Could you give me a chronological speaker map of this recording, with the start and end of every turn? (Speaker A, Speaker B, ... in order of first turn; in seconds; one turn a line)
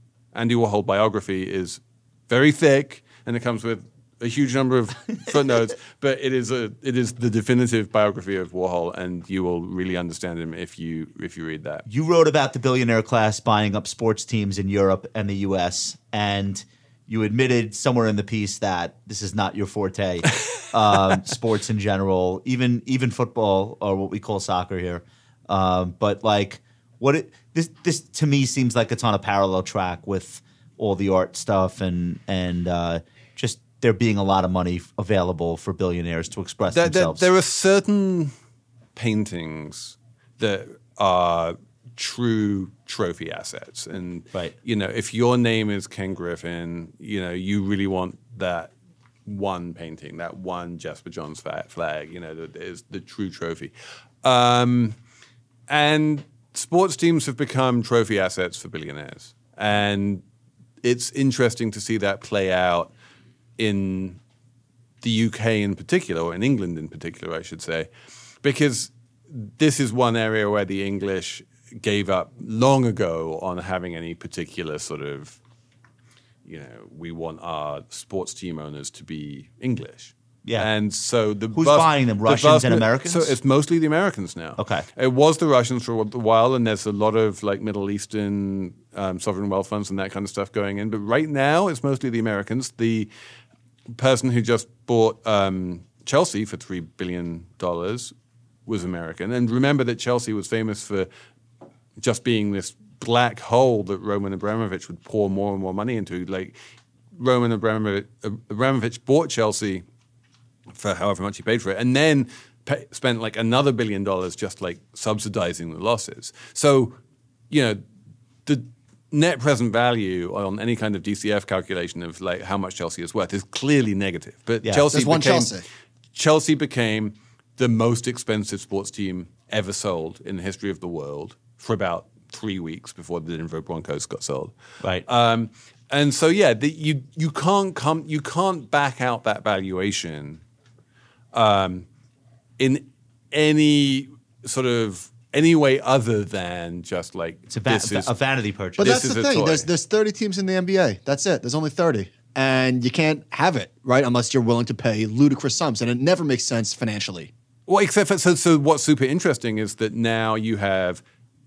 Speaker A: 0.3-11.8
Speaker B: 11.9-37.3
Speaker A: 36.7-38.3
Speaker A: 39.0-48.7
Speaker A: 49.3-53.7
Speaker A: 54.2-55.0
Speaker A: 55.7-60.2
Speaker A: 60.8-62.9
Speaker A: 63.6-64.2
Speaker A: 65.0-67.9
Speaker A: 68.4-75.4
Speaker A: 76.4-93.1
Speaker B: 81.5-83.3
Speaker B: 84.6-84.8
Speaker A: 93.9-98.1
Speaker A: 98.7-101.1
Speaker A: 102.0-106.5
Speaker A: 107.1-109.8
Speaker A: 110.7-117.0
Speaker A: 117.5-117.8
Speaker A: 118.5-125.5
Speaker C: 124.9-125.6
Speaker A: 126.1-134.6
Speaker A: 135.1-140.4
Speaker A: 141.3-141.9
Speaker A: 142.6-148.1
Speaker B: 147.5-149.0
Speaker A: 148.8-149.7
Speaker C: 148.8-157.3
Speaker A: 157.7-161.0